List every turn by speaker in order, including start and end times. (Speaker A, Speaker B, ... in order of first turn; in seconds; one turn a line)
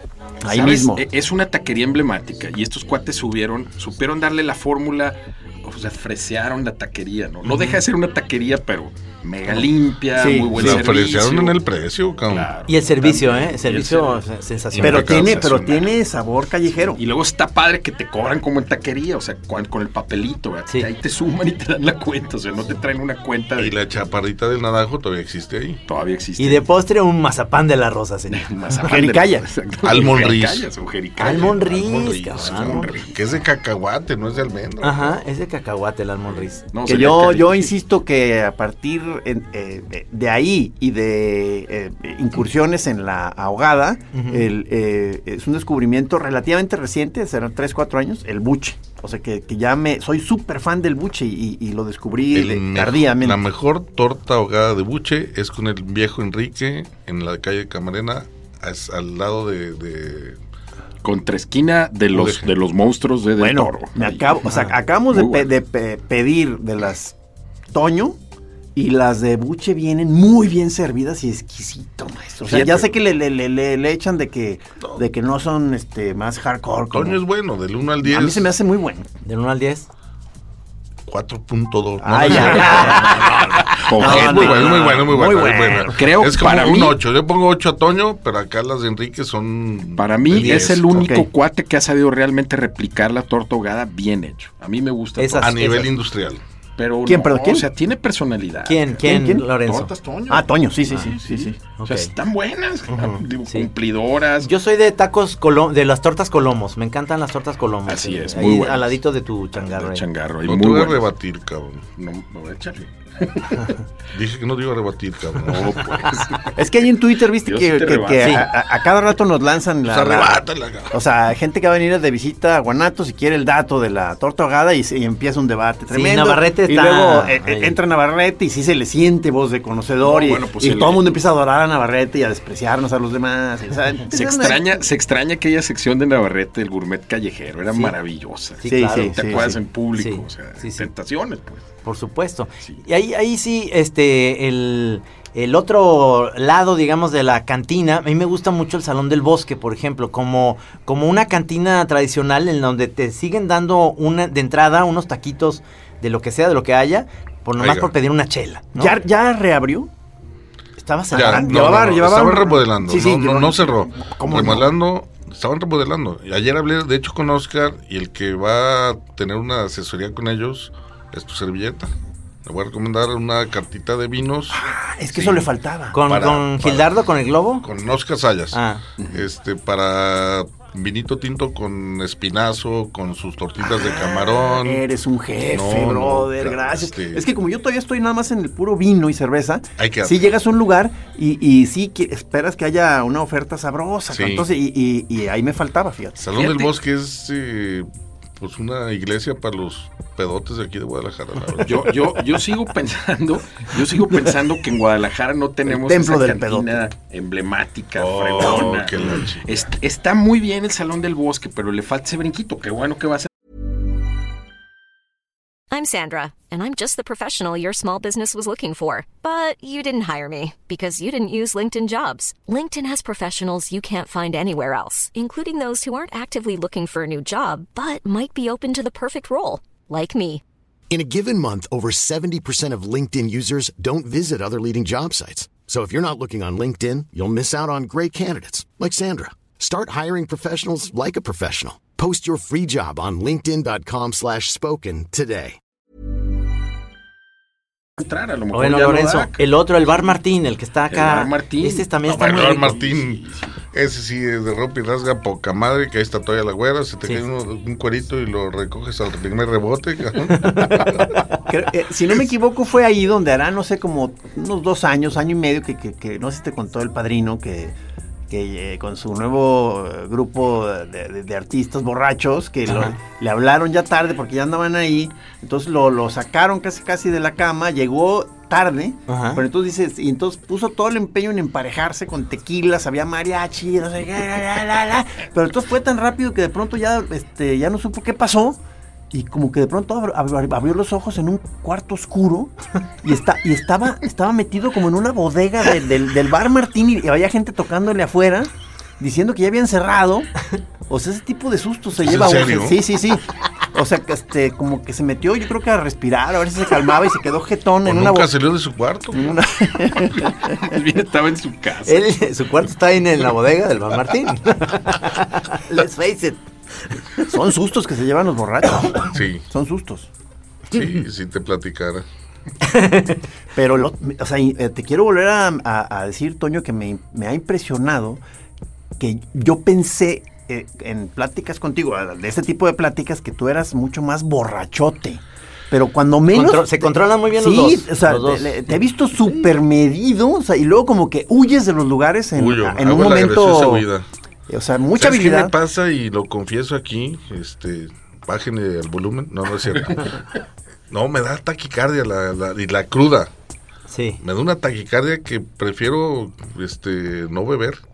Speaker A: 0.4-1.0
Speaker B: 0.5-11.6
Speaker C: 7.5-7.8
Speaker A: 10.1-10.8
Speaker D: 10.5-12.5
Speaker B: 12.3-14.2
Speaker C: 12.7-15.4
Speaker D: 14.7-15.9
Speaker A: 14.8-17.0
Speaker B: 16.9-23.8
Speaker D: 23.6-25.8
Speaker B: 25.9-26.7
Speaker C: 26.4-28.5
Speaker B: 28.3-33.1
Speaker A: 28.8-29.5
Speaker D: 29.8-30.7
Speaker C: 31.2-32.9
Speaker D: 31.3-35.2
Speaker C: 34.8-36.6
Speaker B: 36.7-37.7
Speaker A: 36.9-53.4
Speaker C: 44.1-44.4
Speaker D: 52.3-60.4
Speaker B: 61.0-64.4
Speaker D: 62.1-62.5
Speaker A: 63.4-67.1
Speaker B: 65.1-65.5
Speaker A: 67.7-68.2
Speaker A: 68.7-77.2
Speaker B: 72.4-72.9
Speaker D: 76.9-78.5
Speaker A: 78.0-79.1
Speaker C: 79.2-79.9
Speaker D: 81.1-91.1
Speaker A: 82.0-86.0
Speaker C: 82.3-83.0
Speaker B: 82.5-85.0
Speaker B: 85.9-87.0
Speaker B: 90.0-95.6
Speaker A: 90.4-91.3
Speaker C: 95.2-95.9
Speaker D: 95.4-96.4
Speaker B: 96.8-99.0
Speaker A: 97.0-97.7
Speaker C: 98.7-99.9
Speaker A: 99.0-99.5
Speaker B: 99.6-104.5
Speaker A: 100.3-101.5
Speaker C: 101.8-102.1
Speaker C: 102.9-103.7
Speaker C: 104.4-110.0
Speaker B: 107.9-109.0
Speaker B: 109.6-111.1
Speaker D: 110.4-111.8
Speaker B: 112.0-113.8
Speaker D: 114.1-115.8
Speaker B: 115.4-116.6
Speaker A: 116.5-134.8
Speaker B: 117.4-118.5
Speaker C: 118.2-118.5
Speaker D: 119.8-121.0
Speaker C: 125.9-127.8
Speaker B: 130.0-131.2
Speaker B: 134.1-141.7
Speaker C: 138.6-140.9
Speaker A: 138.7-139.6
Speaker C: 141.8-158.9
Speaker D: 157.6-157.9
Speaker A: 158.7-159.9
Speaker C: 160.8-162.0
Speaker A: 161.1-164.7
Speaker D: 161.1-171.9
Speaker D: 172.4-175.5
Speaker A: 174.5-176.0
Speaker C: 175.9-177.7
Speaker D: 176.0-177.0
Speaker D: 177.6-178.6
Speaker C: 178.5-178.8
Speaker B: 179.0-179.2
Speaker D: 179.1-184.8
Speaker A: 183.6-196.6
Speaker D: 185.5-187.3
Speaker D: 189.8-190.3
Speaker D: 194.1-194.5
Speaker D: 196.2-202.2
Speaker B: 201.6-213.3
Speaker A: 205.7-206.8
Speaker D: 207.9-209.7
Speaker E: 215.7-230.4
Speaker F: 230.9-245.6
Speaker B: 248.0-249.4
Speaker C: 248.5-252.7
Speaker B: 250.9-253.5
Speaker D: 252.1-261.1
Speaker C: 260.4-260.9
Speaker A: 261.5-267.7
Speaker A: 268.3-288.6
Speaker C: 272.7-273.0
Speaker C: 279.1-279.4
Speaker A: 289.1-300.3
Speaker A: 300.9-308.3
Speaker D: 302.0-302.8
Speaker D: 307.8-309.4
Speaker A: 309.1-310.7
Speaker B: 310.5-312.3
Speaker C: 311.9-316.4
Speaker C: 316.9-317.2
Speaker A: 317.2-320.1
Speaker D: 319.1-319.4
Speaker D: 320.7-322.0
Speaker C: 322.6-323.2
Speaker A: 323.5-328.2
Speaker A: 329.0-343.8
Speaker C: 336.3-338.7
Speaker D: 342.3-344.1
Speaker A: 344.5-345.5
Speaker D: 344.9-350.2
Speaker D: 350.9-353.3
Speaker C: 353.9-354.2
Speaker D: 354.2-357.8